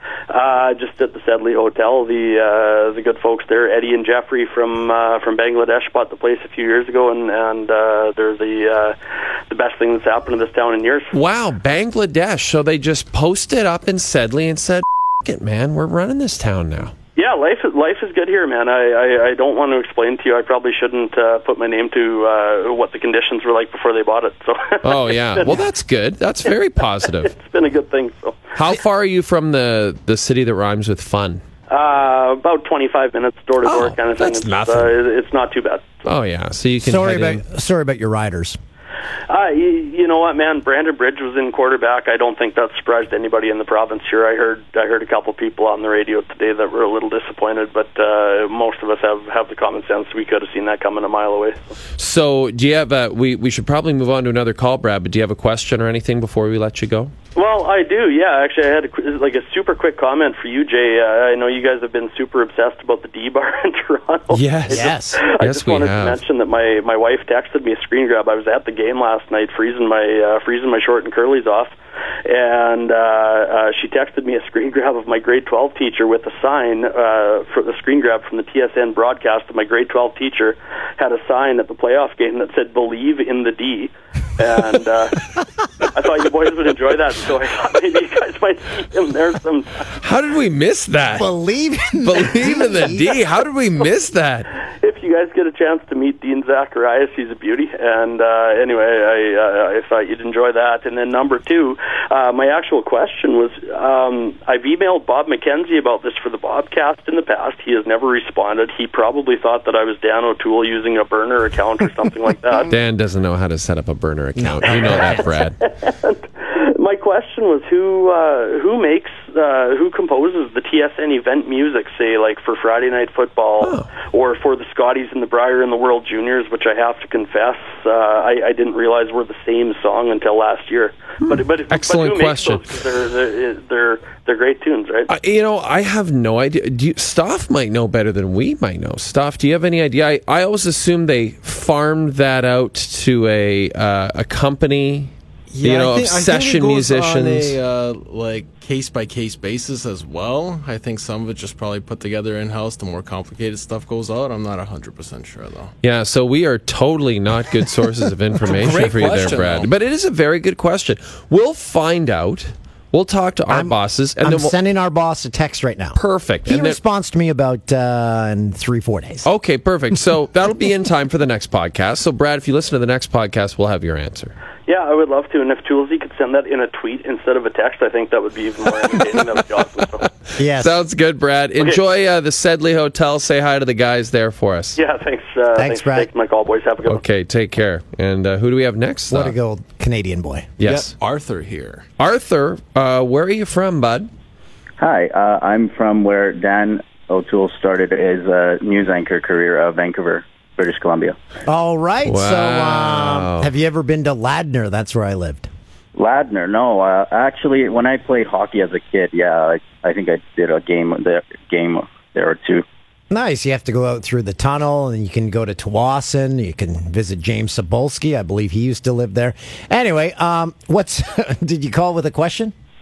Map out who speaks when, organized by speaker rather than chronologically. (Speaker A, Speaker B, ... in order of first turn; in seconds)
Speaker A: 0.3-8.9, 9.5-11.1, 17.1-25.6, 26.4-28.4, 31.7-36.0, 39.3-51.6, 57.3-71.7, 72.2-85.3, 85.8-89.7, 94.8-112.7, 114.8-135.1, 174.7-180.1, 184.7-187.0
Speaker B: 11.1-16.9, 24.8-27.3, 28.5-31.4, 33.6-34.9, 36.0-37.4, 52.0-57.1, 64.3-66.2, 90.0-91.3, 92.0-94.5, 112.7-115.6, 123.6-123.9, 131.2-132.8, 135.1-145.1, 145.6-147.6, 155.8-164.5, 165.9-166.8, 169.2-174.3, 180.0-184.8, 186.8-189.3, 190.6-190.9, 192.0-194.1, 202.1-203.5
Speaker C: 36.8-38.6, 64.7-65.2, 91.2-93.2, 114.4-115.2, 163.5-169.3, 180.4-180.8, 185.6-186.1, 189.1-190.5, 201.4-205.5, 213.1-222.5
Speaker D: 145.5-155.7, 158.4-159.7, 190.6-191.8
Speaker E: 194.8-201.2, 205.9-212.6